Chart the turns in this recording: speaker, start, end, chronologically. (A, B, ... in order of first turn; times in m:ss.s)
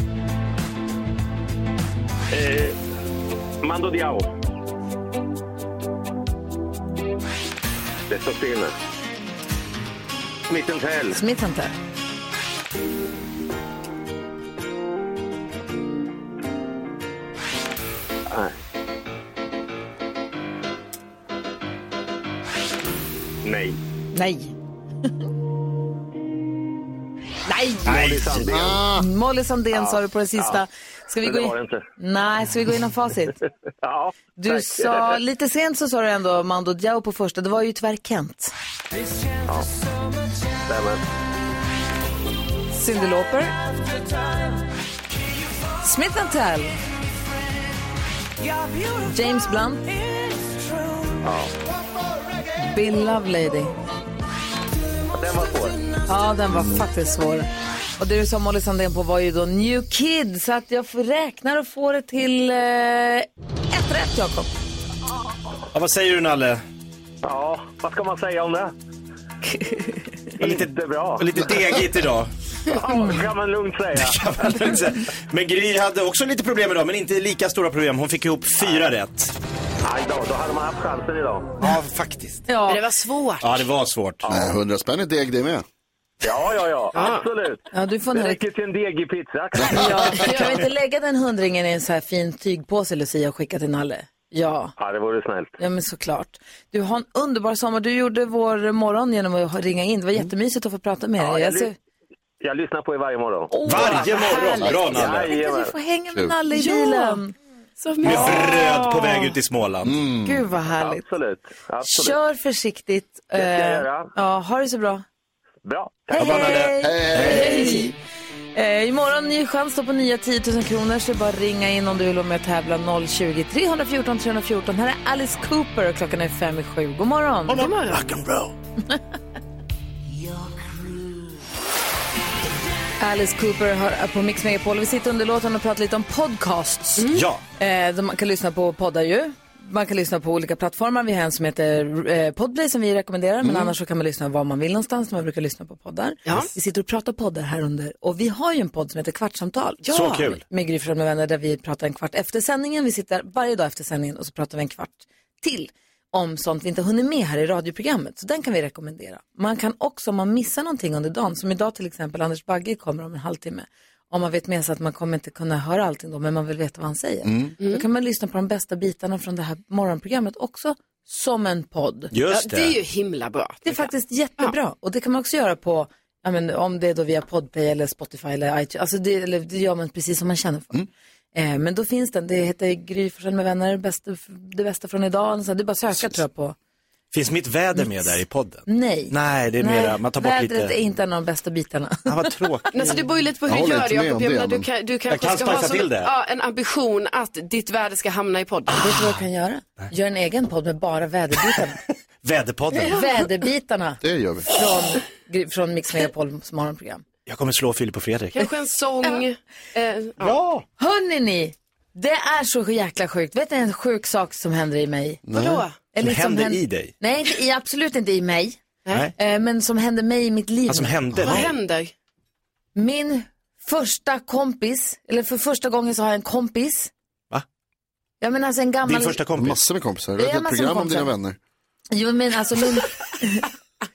0:02.3-0:02.8 A
0:03.6-0:04.3 A
0:08.1-0:08.8 A
0:10.5-0:11.2 A
0:11.1-0:11.8 B
0:18.3-0:18.6 A
0:23.4-0:23.8 A
0:24.1-0:24.5 B
0:27.5-0:27.9 B
0:27.8-0:28.8 A
0:27.9-0:28.5 C
0:28.4-0:29.0 D
0:29.0-0:33.4 B
0:29.7-0:30.6 A
0:31.2-0:31.8 A
0:33.8-0:35.1 A
0:34.4-0:38.5 B
0:40.7-0:41.0 A
0:42.7-0:43.5 B
0:45.8-0:46.7 B
0:49.0-0:50.0 B
0:51.2-0:51.5 A
0:52.6-0:53.7 B
0:55.1-0:55.8 A
0:56.1-0:57.5 B
0:58.0-1:04.5 B
1:05.7-1:06.6 C
1:07.2-1:08.7 A
1:09.6-1:09.8 B
1:10.4-1:11.5 A
1:10.4-1:12.3 C
1:12.7-1:14.2 A
1:14.0-1:19.3 C
1:19.8-1:21.5 A
1:21.6-1:22.4 C
1:22.5-1:22.8 B
1:22.6-1:23.7 E
1:23.4-1:24.2 C
1:24.2-1:24.6 A
1:24.3-1:25.6 D
1:26.2-1:30.2 A
1:26.9-1:27.3 E
1:27.7-1:28.4 B
1:29.6-1:34.7 B
1:30.1-1:30.6 E
1:34.8-1:35.5 A
1:35.6-1:41.8 B
1:41.2-1:41.7 A
1:42.4-1:43.5 A
1:43.5-1:44.6 B
1:43.6-1:45.3 C
1:43.8-1:44.7 E
1:44.6-1:45.1 D
1:44.9-1:45.7 A
1:45.2-1:47.3 B
1:46.5-1:47.2 E
1:47.8-1:49.3 E
1:48.0-1:50.0 C
1:49.8-1:50.5 D
1:50.2-1:51.0 B
1:50.8-1:52.2 A
1:51.8-1:55.0 B
1:53.4-1:54.1 A
1:55.6-1:56.7 A
1:56.1-1:58.0 B
1:56.1-1:57.9 C
1:56.8-1:57.8 D
1:58.5-2:07.6 B
2:07.5-2:08.5 C
2:07.5-2:08.0 E
2:13.0-2:52.1 B
2:17.0-2:17.2 E
2:17.1-2:17.4 C
2:23.4-2:23.7 D
2:29.9-2:30.4 C
2:47.2-2:47.5 D
2:52.1-2:52.8 C
2:52.3-2:54.5 E
2:53.6-3:00.8 B
3:01.3-3:06.6 B
3:07.1-3:10.8 C
3:07.8-3:12.9 B
3:12.0-3:12.8 C
3:12.7-3:18.9 E
3:13.5-3:14.6 D
3:15.1-3:16.1 C
3:18.7-3:21.8 B
3:22.2-3:23.1 C
3:22.9-3:27.0 B
3:24.0-3:24.5 D
3:27.3-3:28.5 C
3:28.4-3:30.4 E
3:30.2-3:30.6 C
3:30.8-3:35.2 B
3:35.2-3:35.6 D
3:35.3-3:35.8 E
3:35.9-3:38.6 B
3:36.0-3:36.9 C
3:39.2-3:41.0 B
3:40.7-3:41.5 C
3:41.2-3:41.9 E
3:42.8-3:46.9 B
3:48.2-3:49.2 B
3:48.8-3:49.6 C
3:49.4-3:51.4 D
3:50.2-3:51.1 B
3:51.9-3:53.5 B